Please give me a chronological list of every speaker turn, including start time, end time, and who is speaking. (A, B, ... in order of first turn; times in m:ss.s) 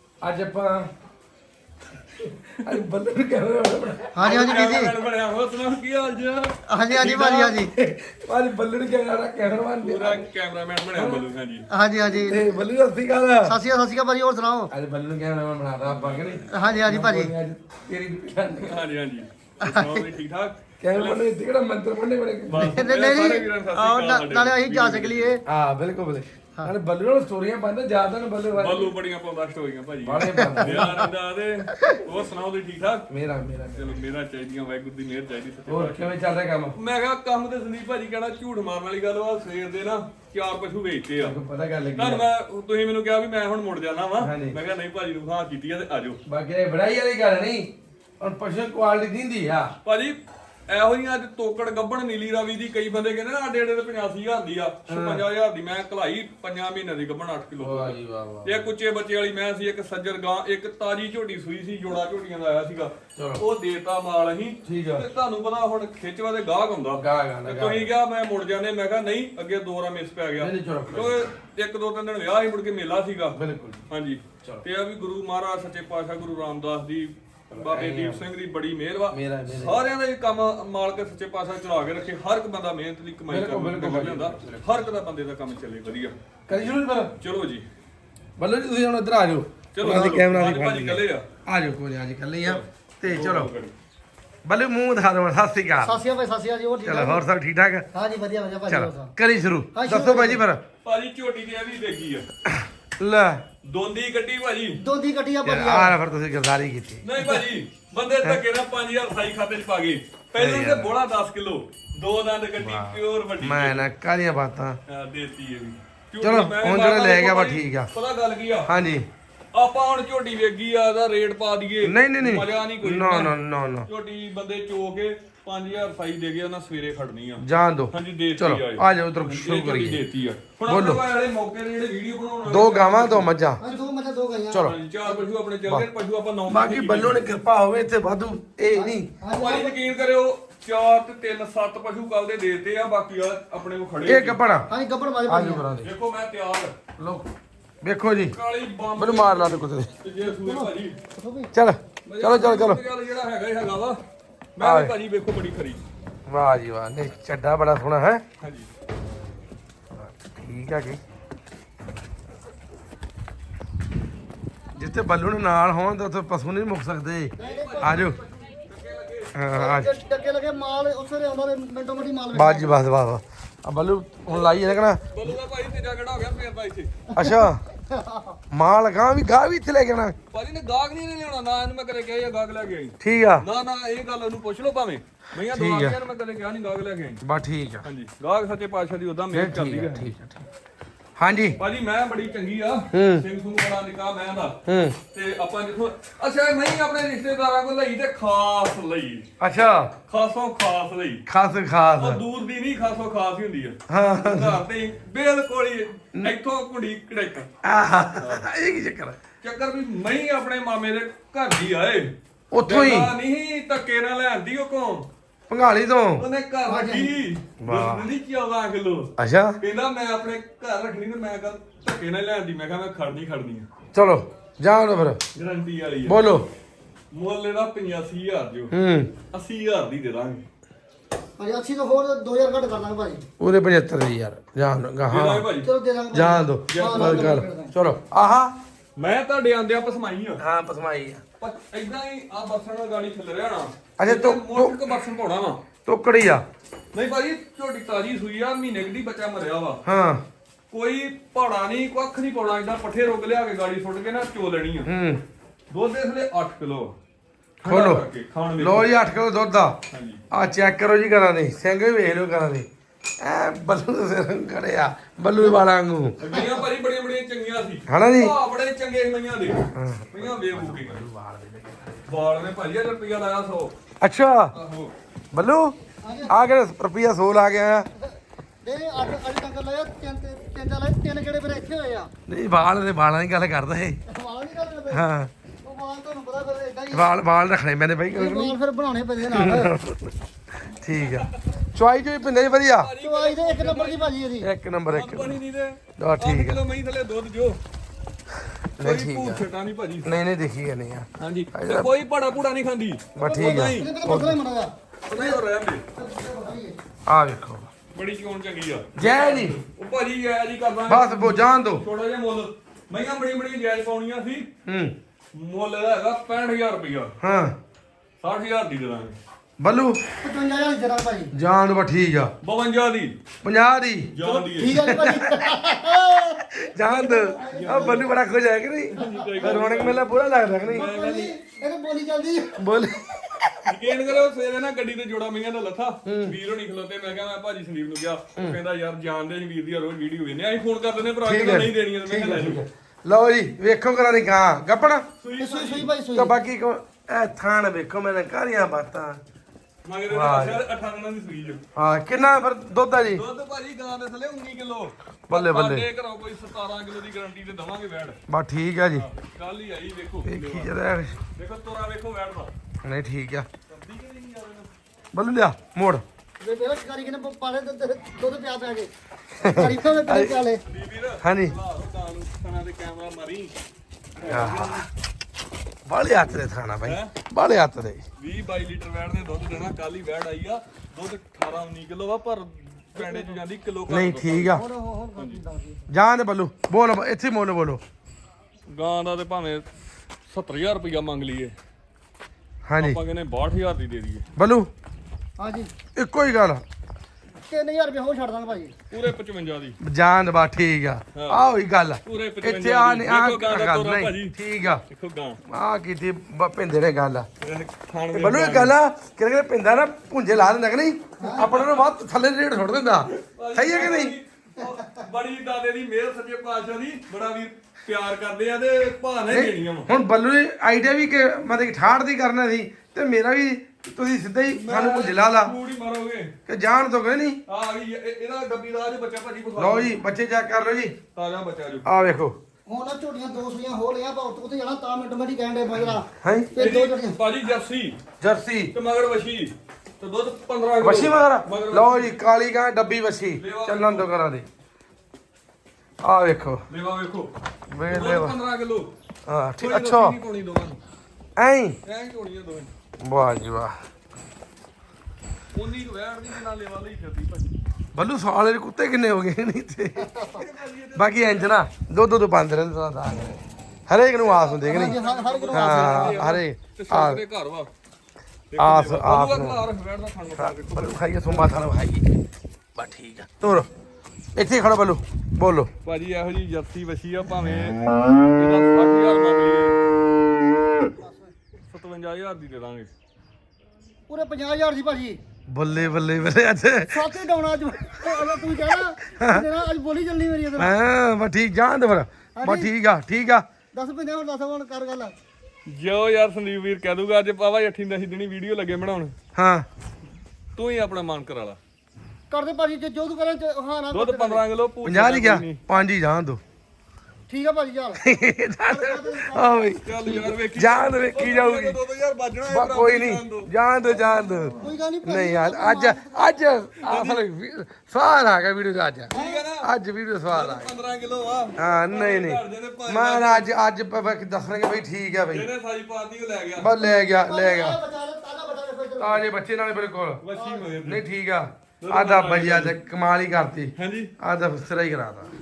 0:00.2-0:00.9 A
0:02.3-0:04.3 A
0:04.1-0:05.0 B
0:04.2-0:07.6 C
0:06.7-0:07.7 B
0:07.6-0:10.3 A
0:09.8-0:11.7 C
0:11.0-0:11.3 A
0:11.7-0:12.6 B
0:12.2-0:13.6 A
0:13.4-0:14.7 B
0:14.7-0:18.8 A
0:15.8-0:16.4 C
0:16.5-0:17.3 B
0:18.6-0:21.3 C
0:19.6-0:20.1 B
0:20.8-0:22.8 A
0:22.5-0:25.4 C
0:22.6-0:25.4 B
0:25.5-0:28.9 A
0:28.6-0:33.1 C
0:30.0-0:31.0 A
0:33.1-0:34.0 A
0:33.8-0:36.1 C
0:35.7-0:36.8 A
0:36.8-0:41.4 C
0:41.2-0:42.2 A
0:42.0-0:46.2 C
0:44.2-0:44.6 A
0:46.3-0:49.8 A
0:49.8-0:50.2 C
0:50.7-1:13.4 C
0:54.9-0:55.2 A
0:57.6-0:58.7 A
1:03.2-1:03.4 A
1:04.6-1:05.1 A
1:07.0-1:07.9 A
1:10.4-1:11.2 A
1:13.3-1:13.8 A
1:13.9-1:26.2 C
1:17.5-1:18.2 A
1:19.1-1:19.8 A
1:23.3-1:24.6 A
1:26.5-1:27.1 A
1:27.2-1:27.7 C
1:28.4-1:33.5 A
1:29.7-1:31.3 C
1:29.8-1:30.2 B
1:32.4-1:33.7 C
1:34.4-1:36.0 A
1:35.8-1:37.2 B
1:36.8-1:37.9 A
1:37.9-1:39.1 B
1:38.7-1:40.6 A
1:39.7-1:40.4 B
1:40.8-1:42.3 C
1:42.5-1:43.4 A
1:43.6-1:44.8 C
1:44.8-1:46.0 B
1:45.4-1:47.4 A
1:47.0-1:53.9 C
1:50.4-1:50.9 A
1:52.6-1:54.8 A
1:54.9-1:58.7 C
1:56.2-1:57.9 A
1:58.7-1:59.1 A
1:59.5-2:03.4 C
2:01.8-2:03.9 A
2:03.9-2:13.8 C
2:07.4-2:10.0 A
2:10.7-2:11.1 A
2:12.5-2:13.6 A
2:13.6-2:14.7 B
2:14.5-2:14.8 A
2:14.6-2:17.3 C
2:16.5-2:19.1 A
2:18.7-2:19.8 B
2:19.3-2:24.4 C
2:24.0-2:24.7 A
2:24.7-2:25.7 B
2:25.3-2:25.9 A
2:25.8-2:26.8 C
2:27.0-2:27.3 A
2:27.8-2:28.4 A
2:28.3-2:31.0 C
2:29.0-2:29.9 A
2:30.2-2:31.5 B
2:31.5-2:32.8 A
2:32.0-2:34.0 C
2:34.6-2:35.8 C
2:34.6-2:34.9 A
2:36.3-2:38.2 A
2:38.4-2:38.7 C
2:40.0-2:41.0 A
2:44.8-2:48.2 A
2:47.4-2:48.2 B
2:47.4-2:49.4 C
2:49.3-2:49.9 A
2:49.5-2:52.8 B
2:52.3-2:55.0 A
2:54.3-2:54.6 C
2:55.1-2:56.9 C
2:57.1-2:58.4 B
2:57.2-2:57.6 A
2:58.5-3:00.2 A
3:00.3-3:07.2 C
3:03.0-3:03.5 A
3:05.5-3:06.0 A
3:07.2-3:07.9 A
3:07.8-3:10.1 C
3:09.3-3:10.4 A
3:11.2-3:11.6 A
3:11.6-3:14.6 C
3:12.9-3:13.3 A
3:14.6-3:15.0 A
3:15.1-3:19.3 C
3:19.4-3:19.9 A
3:20.1-3:21.2 C
3:21.3-3:22.2 A
3:22.0-3:27.5 C
3:23.9-3:24.6 A
3:27.6-3:29.2 A
3:28.2-3:28.5 C
3:29.4-3:32.1 C
3:32.5-3:33.1 A
3:32.6-3:35.1 C
3:35.5-3:36.3 A
3:36.2-3:43.7 C
3:36.7-3:37.2 B
3:37.6-3:38.1 A
3:39.2-3:39.6 A
3:43.9-3:45.2 A
3:45.4-3:46.3 C
3:46.1-3:46.5 A
3:47.1-3:48.7 C
3:48.7-3:49.1 A
3:49.3-3:50.4 C
3:51.4-3:53.2 B
3:53.4-3:55.5 A
3:55.1-3:55.7 C
3:55.6-3:57.7 B
3:56.1-3:58.6 A
3:56.7-3:57.3 C
3:59.0-4:00.4 C
4:00.4-4:01.2 A
4:01.4-4:05.6 C
4:04.0-4:04.8 A
4:05.9-4:06.4 A
4:06.9-4:09.8 C
4:09.8-4:10.2 A
4:10.7-4:14.9 C
4:14.8-4:15.2 A
4:15.7-4:17.0 C
4:17.6-4:18.9 C
4:17.6-4:18.0 A
4:18.6-4:19.8 A
4:19.9-4:20.2 C
4:20.3-4:22.7 A
4:23.2-4:26.4 A
4:26.2-4:29.6 C
4:27.9-4:28.4 A
4:29.7-4:32.0 A
4:30.1-4:31.0 C
4:32.1-4:33.7 C
4:34.0-4:34.5 A
4:34.5-4:34.9 C
4:35.3-4:35.8 A
4:36.0-4:36.4 B
4:36.3-4:37.9 A
4:38.0-4:42.1 B
4:42.3-4:44.0 A
4:44.1-4:45.1 B
4:44.9-4:45.3 A
4:45.6-4:47.1 B
4:46.9-4:48.6 A
4:48.1-4:49.8 B
4:49.3-4:50.1 A
4:50.8-4:52.9 A
4:51.0-4:51.3 C
4:52.8-4:54.1 C
4:53.0-4:54.5 B
4:54.4-4:55.4 A
4:54.9-4:57.6 C
4:56.0-4:56.6 A
4:58.8-4:59.5 A
4:58.8-5:00.1 C
5:00.0-5:01.9 A
5:01.2-5:03.9 C
5:03.2-5:04.4 A
5:03.2-5:05.3 B
5:05.1-5:05.8 C
5:06.0-5:06.8 B
5:07.1-5:07.7 A
5:07.9-5:14.5 C
5:09.0-5:09.6 A
5:10.9-5:11.8 A
5:14.6-5:14.9 A
5:15.3-5:17.1 C
5:17.2-5:17.6 A
5:18.2-5:19.2 C
5:19.6-5:20.0 A
5:20.2-5:21.3 B
5:21.3-5:22.3 A
5:22.4-5:23.2 C
5:23.4-5:25.4 A
5:24.1-5:24.8 C
5:24.2-5:28.1 B
5:26.6-5:30.9 A
5:27.5-5:28.1 C
5:28.9-5:30.1 C
5:29.0-5:29.7 B
5:30.7-5:31.4 C
5:30.7-5:32.7 B
5:32.6-5:33.8 A
5:33.7-5:42.6 C
5:36.1-5:36.4 A
5:41.2-5:45.1 A
5:45.2-5:45.9 C
5:45.4-5:46.4 B
5:46.2-5:49.2 A
5:49.8-5:51.6 C
5:50.1-5:50.6 A
5:51.8-5:53.2 A
5:53.0-5:58.2 C
5:55.3-5:55.9 A
5:58.3-5:59.1 A
5:59.0-6:00.7 C
6:00.2-6:01.2 A
6:01.4-6:02.5 C
6:02.8-6:03.5 A
6:03.7-6:04.7 C
6:05.1-6:06.0 A
6:06.4-6:10.6 B
6:09.4-6:10.4 A
6:10.6-6:13.5 C
6:11.2-6:11.6 A
6:14.2-6:14.9 C
6:14.2-6:14.8 A
6:15.9-6:18.0 A
6:16.8-6:17.1 C
6:18.2-6:24.6 C
6:23.0-6:23.4 B
6:23.9-6:24.6 A
6:24.5-6:25.9 B
6:25.2-6:25.4 C
6:25.9-6:27.8 A
6:28.7-6:29.7 C
6:30.3-6:31.6 C
6:32.7-6:33.0 A
6:32.8-6:34.2 C
6:34.4-6:34.7 A
6:35.4-6:35.7 B
6:36.0-6:36.6 A
6:37.5-6:38.7 B
6:38.9-6:39.8 C
6:39.8-6:44.8 A
6:41.1-6:41.4 C
6:42.1-6:44.4 C
6:44.9-6:45.4 C
6:45.5-6:47.3 A
6:47.4-6:48.7 C
6:48.1-6:54.2 A
6:51.2-6:51.4 B
6:51.4-6:51.7 C
6:53.2-6:59.9 C
6:59.3-7:05.6 A
7:04.5-7:06.3 C
7:06.5-7:07.4 A
7:07.5-7:09.9 C
7:09.6-7:11.0 A
7:11.1-7:11.9 C
7:11.8-7:12.4 A
7:12.7-7:17.2 B
7:16.2-7:16.5 A
7:16.6-7:18.0 C
7:18.2-7:18.7 A
7:18.7-7:22.2 C
7:20.8-7:24.5 A
7:23.4-7:24.1 C
7:26.0-7:26.6 A
7:26.7-7:27.3 C
7:27.7-7:28.4 A
7:27.9-7:28.9 C
7:29.3-7:30.2 A
7:29.6-7:30.8 C
7:31.4-7:31.8 A
7:31.8-7:32.7 C
7:33.0-7:33.8 A
7:35.5-7:37.5 C
7:37.9-7:40.1 A
7:40.0-7:40.4 B
7:40.2-7:41.7 C
7:41.0-7:45.0 A
7:44.2-7:47.7 C
7:44.6-7:46.2 B
7:45.5-7:47.2 A
7:48.5-7:51.4 C
7:48.6-7:49.6 A
7:50.4-7:52.1 A
7:52.8-7:53.7 A
7:54.4-7:55.7 A
7:55.8-7:57.8 C
7:58.4-7:59.8 C
8:01.0-8:01.3 B
8:01.7-8:02.9 C
8:04.1-8:05.2 B
8:05.5-8:07.1 A
8:06.9-8:10.8 B
8:09.2-8:09.5 A
8:10.6-8:13.5 A
8:12.4-8:12.7 B
8:13.7-8:15.2 B
8:15.7-8:19.1 C
8:19.4-8:19.7 A
8:20.6-8:21.6 C
8:22.3-8:24.4 B
8:23.9-8:25.6 C
8:24.8-8:26.4 A
8:27.3-8:28.0 B
8:28.0-8:31.8 A
8:28.7-8:29.7 B
8:29.8-8:33.5 C
8:32.5-8:40.8 A
8:34.5-8:36.6 B
8:36.8-8:37.2 C
8:39.1-8:39.7 C
8:39.1-8:39.4 B
8:40.3-8:43.5 C
8:41.6-8:45.5 A
8:45.3-8:46.7 C
8:46.6-8:47.8 A
8:46.9-8:49.3 B
8:49.0-8:50.2 A
8:50.2-8:51.0 C
8:50.4-8:50.7 B
8:50.8-8:55.3 A
8:51.8-8:52.8 C
8:53.8-8:54.1 C